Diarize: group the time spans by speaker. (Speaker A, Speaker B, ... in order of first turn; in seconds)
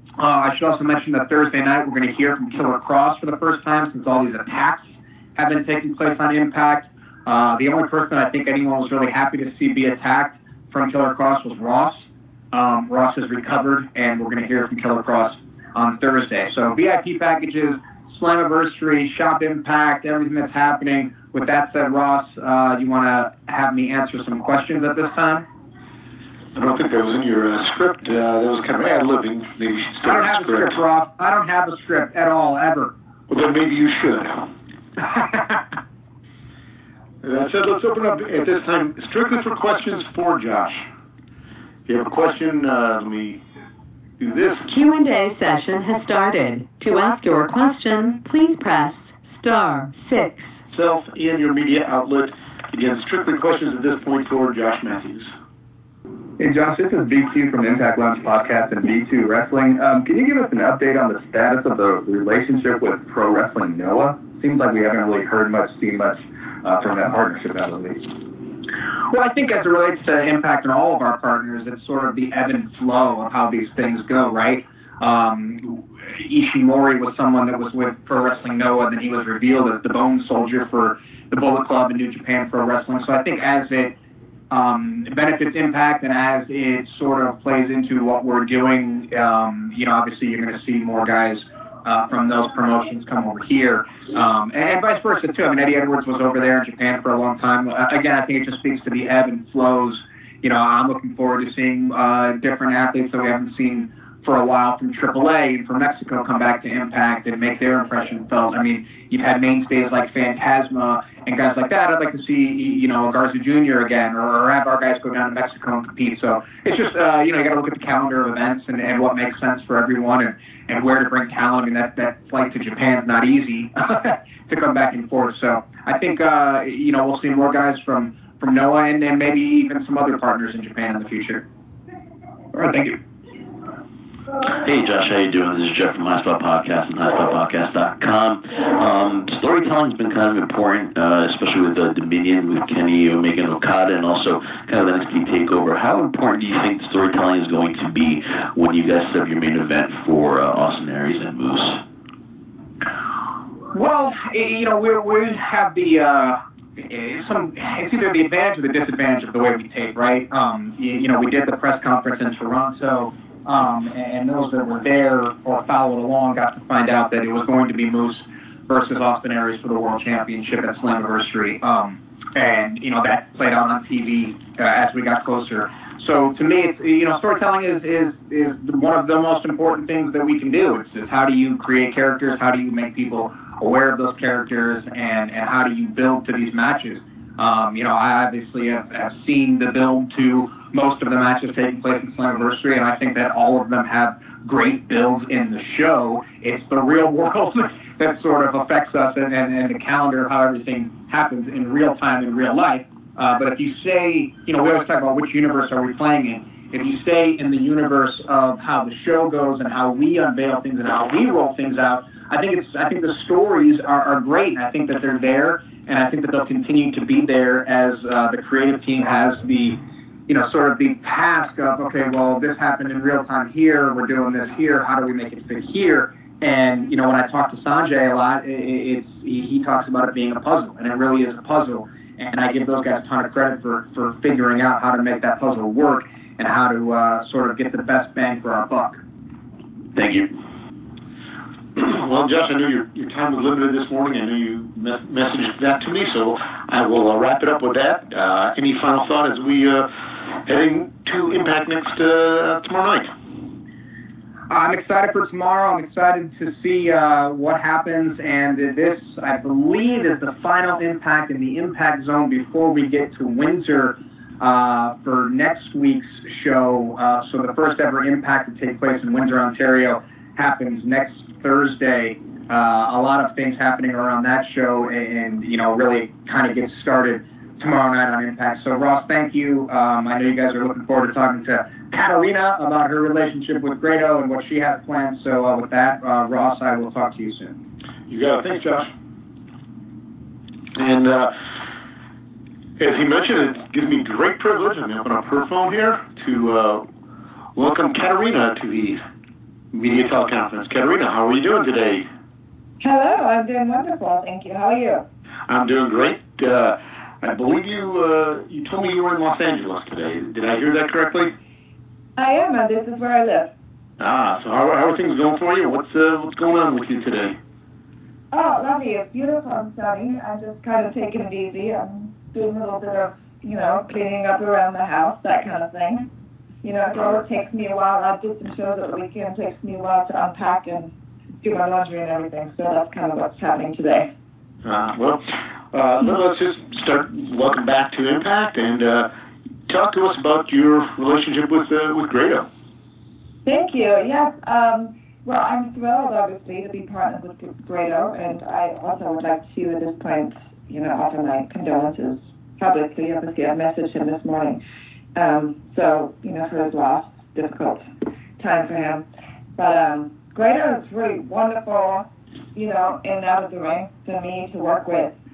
Speaker A: 0.2-25.5, 30.0-32.9, 69.1-83.9, 84.5-131.4, 153.7-239.0, 254.5-287.6
Speaker B: 26.6-30.8, 33.3-34.5, 37.2-40.8, 41.9-43.4, 44.2-44.7, 50.7-55.3, 241.8-249.9, 250.4-253.1, 288.1-288.9, 290.8-291.3, 292.8-296.9, 297.6-299.0, 299.7-302.1, 305.5-311.3, 314.0-317.4, 334.6-339.1, 339.7-342.5
Speaker C: 44.7-50.5
Speaker D: 56.4-68.0, 132.5-133.0
Speaker E: 134.5-151.8, 239.9-240.3
Speaker F: 302.8-305.1, 312.2-313.5, 318.3-326.1, 326.6-334.1, 343.4-354.6, 355.1-357.9, 358.4-359.1, 359.6-365.2